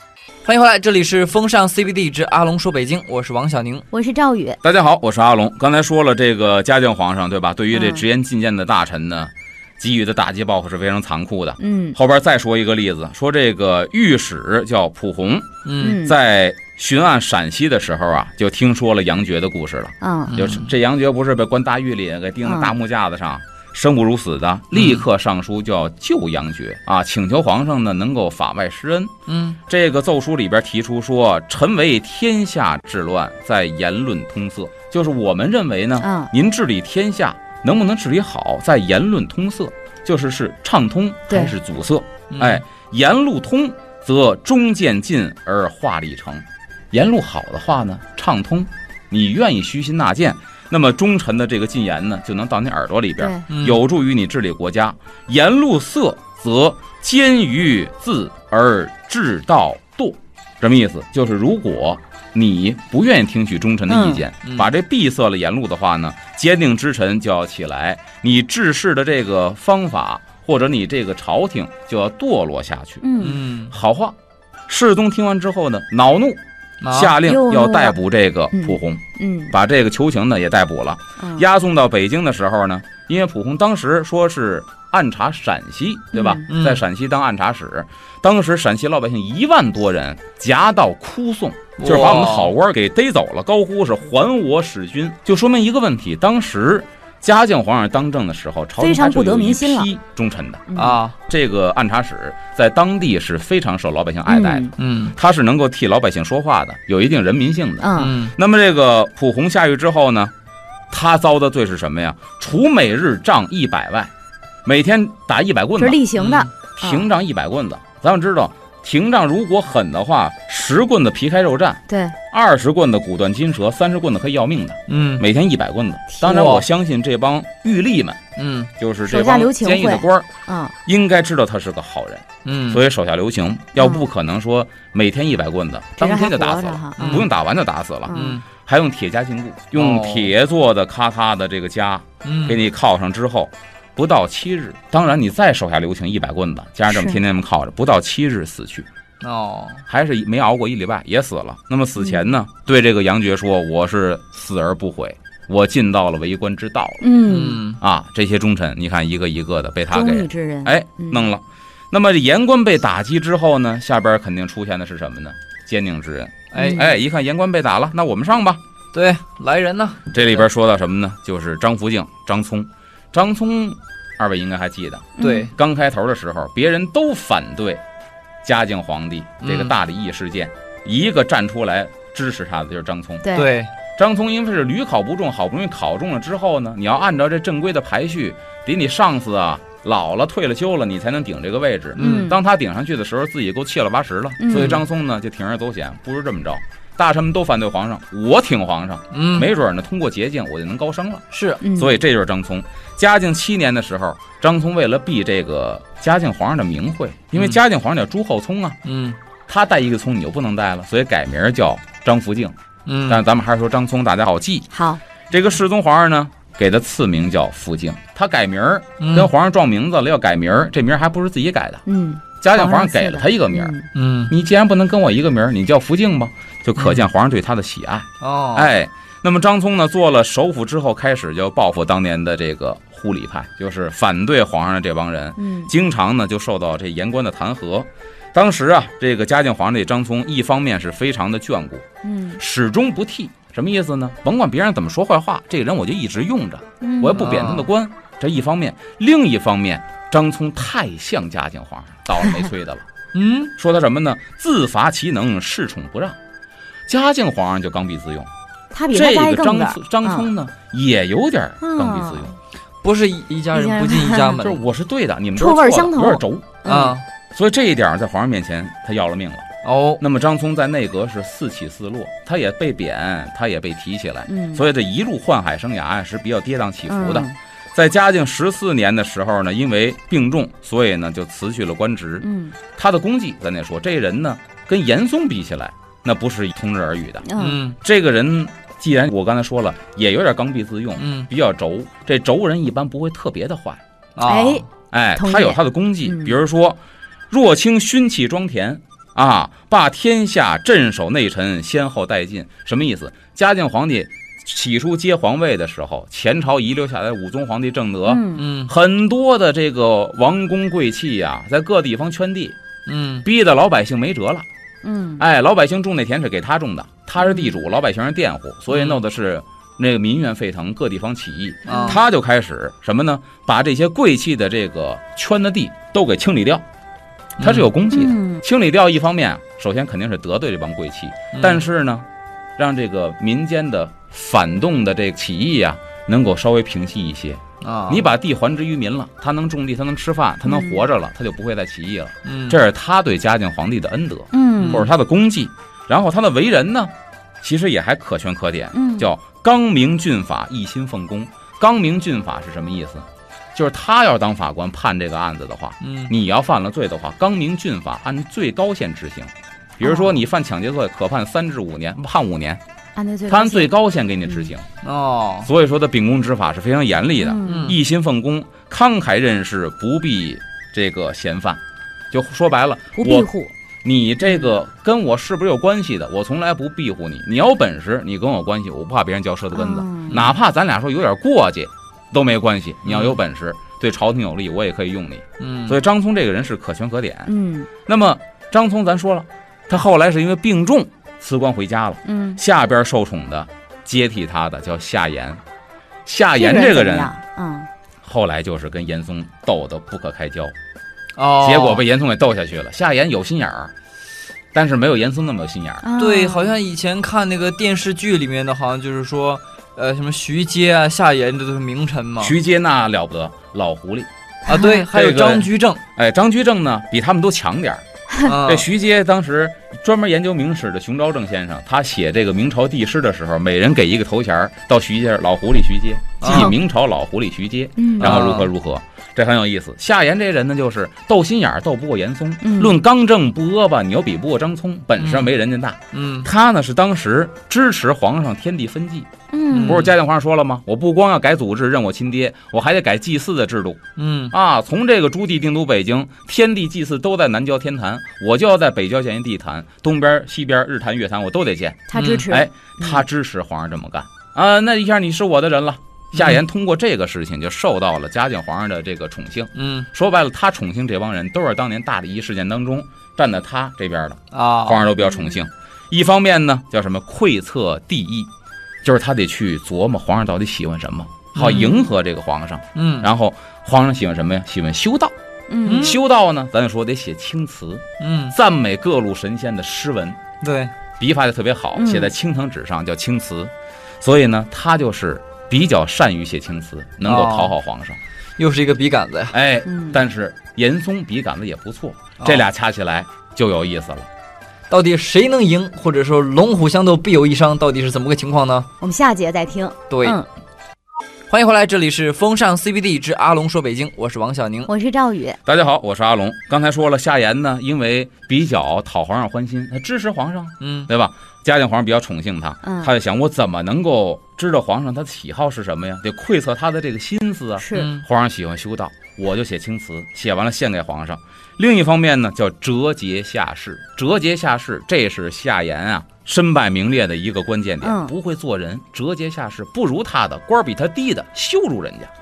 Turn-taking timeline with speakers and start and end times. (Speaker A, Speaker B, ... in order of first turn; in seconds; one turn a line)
Speaker A: 0.4-3.8
Speaker B: 3.9-4.6
Speaker C: 4.6-29.1
Speaker B: 7.7-8.0
Speaker B: 11.6-12.0
Speaker A: 15.7-16.0
Speaker B: 15.8-16.1
Speaker B: 20.0-20.4
Speaker A: 20.3-20.7
Speaker B: 22.4-22.7
Speaker A: 24.7-25.0
Speaker A: 29.3-29.6
Speaker C: 29.7-73.1
Speaker B: 36.0-36.3
Speaker B: 41.3-41.5
Speaker A: 42.3-42.6
Speaker B: 53.2-53.4
Speaker A: 53.5-53.8
Speaker B: 63.9-64.2
Speaker A: 64.4-64.7
Speaker B: 73.0-73.4
Speaker A: 73.2-73.7
Speaker C: 73.7-74.2
Speaker C: 74.7-110.3
Speaker A: 76.8-77.2
Speaker B: 77.2-78.0
Speaker B: 78.5-79.5
Speaker B: 81.2-81.5
Speaker B: 86.1-86.5
Speaker A: 86.5-86.8
Speaker A: 91.8-92.5
Speaker B: 98.8-99.9
Speaker B: 100.7-101.0
Speaker A: 100.8-101.1
Speaker B: 104.3-104.7
Speaker A: 104.8-105.2
Speaker B: 107.8-108.2
Speaker A: 108.0-108.3
Speaker C: 110.9-114.1
Speaker C: 114.6-116.0
Speaker B: 115.8-117.1
Speaker A: 116.2-116.5
Speaker C: 116.8-128.2
Speaker B: 121.9-122.2
Speaker A: 124.9-125.2
Speaker A: 126.2-126.7
Speaker A: 128.3-128.7
Speaker C: 128.8-130.3
Speaker B: 129.1-130.7
Speaker C: 130.8-148.9
Speaker A: 132.4-132.8
Speaker B: 133.8-134.0
Speaker B: 136.0-137.3
Speaker A: 137.0-137.3
Speaker B: 138.1-138.4
Speaker A: 138.1-138.4
Speaker A: 139.7-140.3
Speaker A: 142.2-142.6
Speaker B: 146.9-147.2
Speaker A: 149.2-149.8
Speaker C: 149.9-157.1
Speaker B: 152.0-152.3
Speaker B: 157.0-157.6
Speaker A: 157.2-157.8
Speaker C: 157.8-168.6
Speaker B: 159.9-161.3
Speaker A: 166.5-166.9
Speaker B: 166.5-166.9
Speaker A: 168.9-170.1
Speaker C: 170.1-177.8
Speaker B: 175.2-175.5
Speaker A: 175.2-175.5
Speaker C: 178.4-183.3
Speaker A: 179.4-179.7
Speaker B: 183.2-183.5
Speaker A: 183.3-183.7
Speaker C: 184.0-208.8
Speaker A: 192.0-192.3
Speaker B: 192.0-192.4
Speaker B: 194.4-194.8
Speaker A: 194.5-194.8
Speaker A: 199.1-199.5
Speaker A: 201.3-201.6
Speaker B: 201.6-201.9
Speaker A: 208.8-209.2
Speaker C: 209.5-212.5
Speaker A: 212.8-213.2
Speaker C: 213.1-214.7
Speaker B: 214.7-215.0
Speaker C: 215.3-221.8
Speaker A: 219.0-219.3
Speaker B: 221.8-223.9
Speaker C: 222.4-223.7
Speaker A: 223.9-224.3
Speaker C: 224.3-241.8
Speaker A: 226.8-227.0
Speaker A: 228.2-228.7
Speaker B: 235.4-235.7
Speaker B: 242.0-242.4
Speaker C: 242.4-252.8
Speaker B: 246.8-247.4
Speaker A: 247.1-247.7
Speaker A: 253.1-253.5
Speaker C: 253.6-256.2
Speaker C: 256.9-258.3
Speaker B: 258.7-260.3
Speaker C: 258.9-262.3
Speaker B: 261.6-262.3
Speaker A: 262.8-264.6
Speaker B: 263.5-264.4
Speaker C: 264.4-266.6
Speaker B: 265.4-266.9
Speaker A: 266.6-267.0
Speaker C: 267.3-269.5
Speaker A: 269.6-270.0
Speaker C: 270.0-293.8
Speaker B: 274.3-274.6
Speaker B: 276.9-277.3
Speaker B: 282.2-282.6
Speaker B: 287.2-287.6
Speaker A: 287.4-287.8
Speaker A: 291.0-291.3
Speaker A: 294.1-294.6
Speaker B: 294.2-296.4
Speaker C: 294.9-312.6
Speaker B: 308.1-308.4
Speaker A: 308.3-308.7
Speaker A: 312.9-313.2
Speaker C: 313.2-314.4
Speaker B: 314.8-315.2
Speaker C: 315.2-326.6
Speaker B: 317.2-317.5
Speaker A: 318.7-319.0
Speaker A: 321.6-322.0
Speaker B: 321.7-322.0
Speaker A: 327.4-327.7
Speaker C: 327.4-362.6
Speaker B: 327.9-328.4
Speaker A: 331.3-331.6
Speaker A: 337.6-338.1
Speaker B: 340.4-340.8
Speaker A: 342.2-342.6
Speaker B: 344.3-344.9
Speaker A: 344.6-344.9
Speaker B: 348.7-349.1
Speaker A: 355.8-356.1
Speaker B: 359.8-360.2
Speaker B: 362.9-363.7
Speaker C: 363.3-364.6
Speaker A: 364.8-365.5
Speaker C: 365.4-373.3
Speaker B: 367.2-367.8
Speaker A: 367.4-367.8
Speaker B: 372.9-373.5
Speaker C: 373.8-387.3
Speaker B: 379.5-380.2
Speaker A: 380.1-380.4
Speaker A: 382.9-383.2
Speaker A: 385.4-385.8
Speaker B: 387.3-387.7
Speaker C: 387.9-395.4
Speaker B: 392.0-392.4
Speaker C: 396.0-397.1
Speaker B: 396.3-397.7
Speaker C: 398.0-400.5
Speaker A: 401.1-401.8
Speaker C: 401.4-403.7
Speaker C: 404.5-405.9
Speaker B: 405.8-406.6
Speaker A: 406.0-412.4
Speaker C: 412.2-414.1
Speaker A: 414.4-415.8
Speaker B: 414.5-414.8
Speaker C: 414.9-417.8
Speaker A: 418.2-418.7
Speaker C: 418.4-443.8
Speaker A: 426.2-426.5
Speaker B: 426.2-426.6
Speaker B: 427.8-428.2
Speaker A: 428.0-428.5
Speaker B: 432.4-432.8
Speaker A: 435.0-435.3
Speaker A: 435.9-436.3
Speaker B: 439.3-439.8
Speaker A: 439.5-439.9
Speaker A: 444.0-444.3
Speaker C: 444.3-468.3
Speaker B: 451.9-453.0
Speaker A: 451.9-452.3
Speaker A: 456.1-456.4
Speaker A: 459.5-459.9
Speaker A: 464.3-464.9
Speaker B: 465.0-465.3
Speaker C: 468.8-475.1
Speaker A: 471.3-471.8
Speaker B: 471.5-471.8
Speaker A: 472.7-473.1
Speaker B: 475.5-476.0
Speaker A: 475.6-476.0
Speaker C: 475.7-480.2
Speaker A: 478.0-478.3
Speaker A: 480.4-480.7
Speaker C: 481.0-488.0
Speaker B: 481.8-482.1
Speaker A: 487.0-487.5
Speaker A: 488.4-489.3
Speaker C: 489.3-494.1
Speaker B: 489.6-490.0
Speaker A: 492.2-492.4
Speaker A: 494.7-498.7
Speaker B: 498.8-500.2
Speaker A: 499.9-500.2
Speaker A: 501.3-504.7
Speaker B: 504.7-505.4
Speaker C: 505.4-532.1
Speaker A: 510.6-510.9
Speaker B: 512.6-512.9
Speaker B: 517.6-517.9
Speaker A: 517.7-518.0
Speaker B: 527.8-528.1